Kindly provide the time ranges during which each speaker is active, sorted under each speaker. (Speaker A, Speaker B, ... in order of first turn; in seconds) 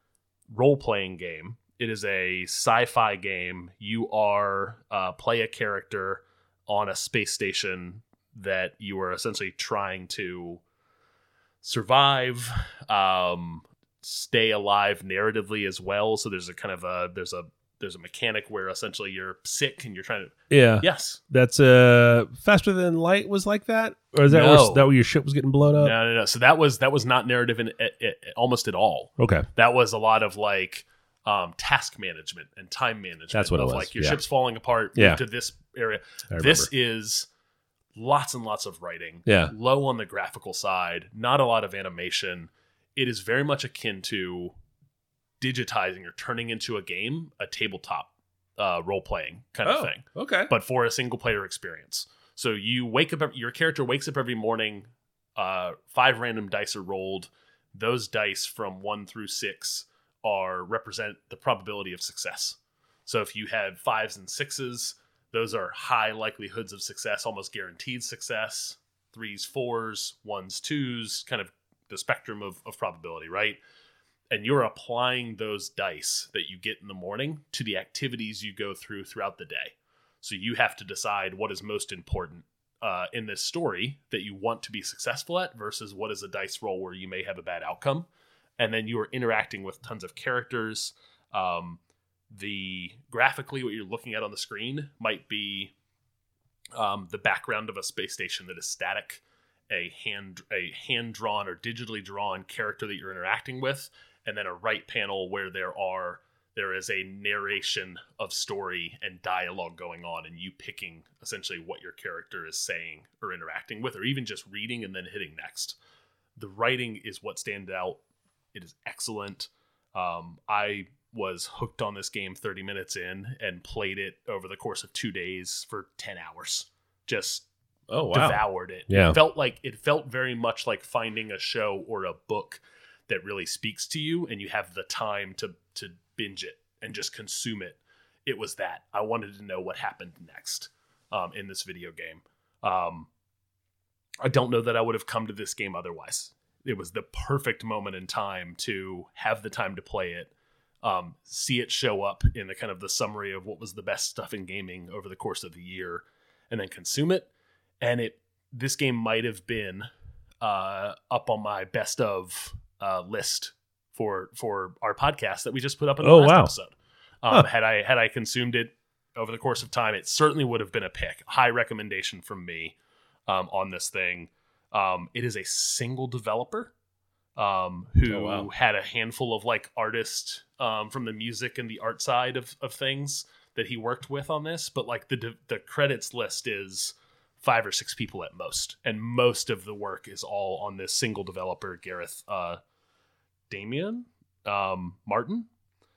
Speaker A: 0.5-10.6, 11.6-21.2, 24.3-24.9, 25.8-37.3, 37.9-44.5, 45.4-73.6, 74.3-88.1, 88.6-91.8, 92.3-95.7, 96.7-115.8, 116.4-118.0, 118.5-127.5, 128.1-143.1, 144.2-150.3, 150.8-157.3, 157.8-159.9, 160.4-176.7, 177.3-192.6, 193.5-195.5
Speaker B: 20.5-25.9, 29.2-29.5, 33.3-34.2, 35.0-35.2, 36.3-36.7, 39.2-39.5, 49.6-50.5, 127.9-129.2, 166.0-166.5, 178.1-178.5